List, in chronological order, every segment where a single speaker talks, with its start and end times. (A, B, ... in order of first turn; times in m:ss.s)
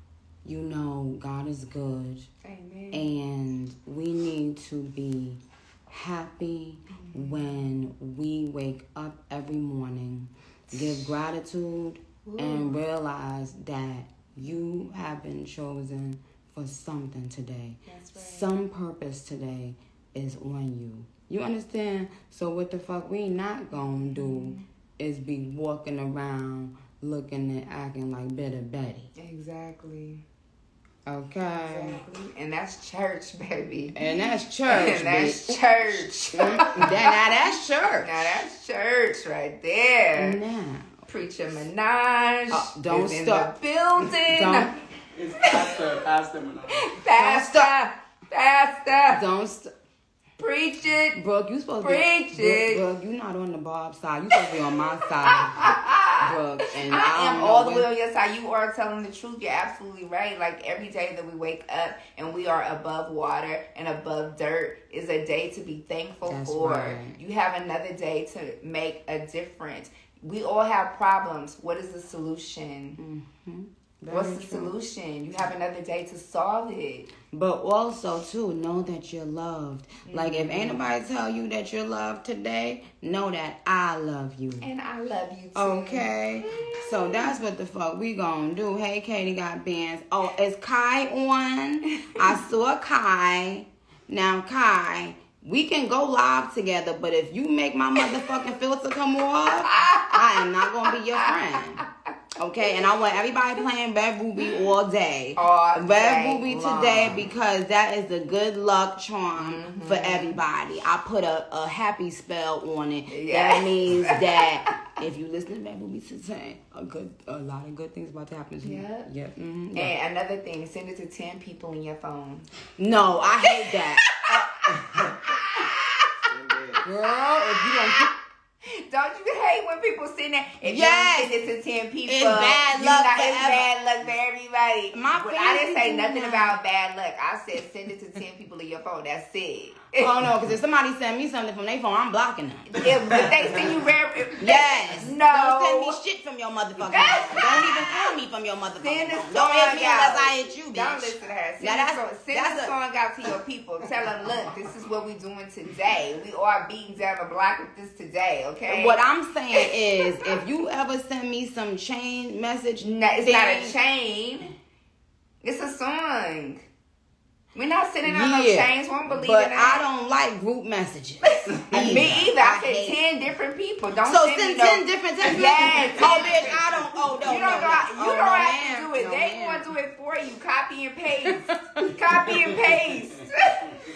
0:00.4-0:02.3 A
0:02.4-0:03.1 B
0:02.9-0:29.1 A
0:06.9-0:07.5 B
0:12.2-0:12.8 B
0:17.9-0:18.5 B
0:24.2-0:24.6 B
0:29.2-0:30.2 B
0:31.1-0:32.0 A
0:31.7-0:37.1 B
0:34.0-0:35.6 A
0:36.4-0:38.2 A
0:38.0-0:40.4 B
0:40.2-0:41.0 A
0:41.1-0:44.7 B
0:42.5-0:44.7 A
0:45.2-0:47.0 C
0:45.4-0:46.0 B
0:46.7-0:49.2 B
0:47.2-0:47.7 A
0:49.1-0:49.7 A
0:50.4-0:51.2 B
0:51.1-0:57.9 A
0:51.8-0:52.8 B
0:55.3-1:13.0 B
1:06.3-1:07.2 A
1:13.0-1:14.8 A
1:14.1-1:17.1 B
1:17.3-1:24.7 A
1:20.0-1:20.9 B
1:24.6-1:27.3 B
1:25.6-1:41.8 A
1:39.7-1:40.2 B
1:42.4-1:59.9 A
1:45.4-1:47.2 B
1:49.4-1:50.4 B
1:53.1-1:54.7 B
1:58.6-1:59.1 B
1:59.7-2:02.5 B
2:02.8-2:04.0 A
2:04.3-2:04.7 B
2:04.3-2:05.2 C
2:05.3-2:06.1 B
2:06.3-2:06.8 C
2:06.8-2:08.1 A
2:07.1-2:08.1 B
2:08.8-2:20.1 B
2:10.6-2:11.3 A
2:12.1-2:13.7 A
2:14.9-2:16.6 A
2:20.0-2:22.7 A
2:22.7-2:26.0 B
2:24.4-2:32.7 A
2:26.9-2:28.1 B
2:28.8-2:39.0 B
2:38.7-2:43.8 A
2:42.8-2:44.5 B
2:45.4-2:46.7 B
2:47.5-2:49.9 B
2:48.0-2:53.0 A
2:51.2-2:56.6 B
2:51.9-2:52.1 C
2:54.0-2:59.7 A
2:56.0-2:56.6 C
2:57.2-3:03.8 B
3:01.2-3:01.8 A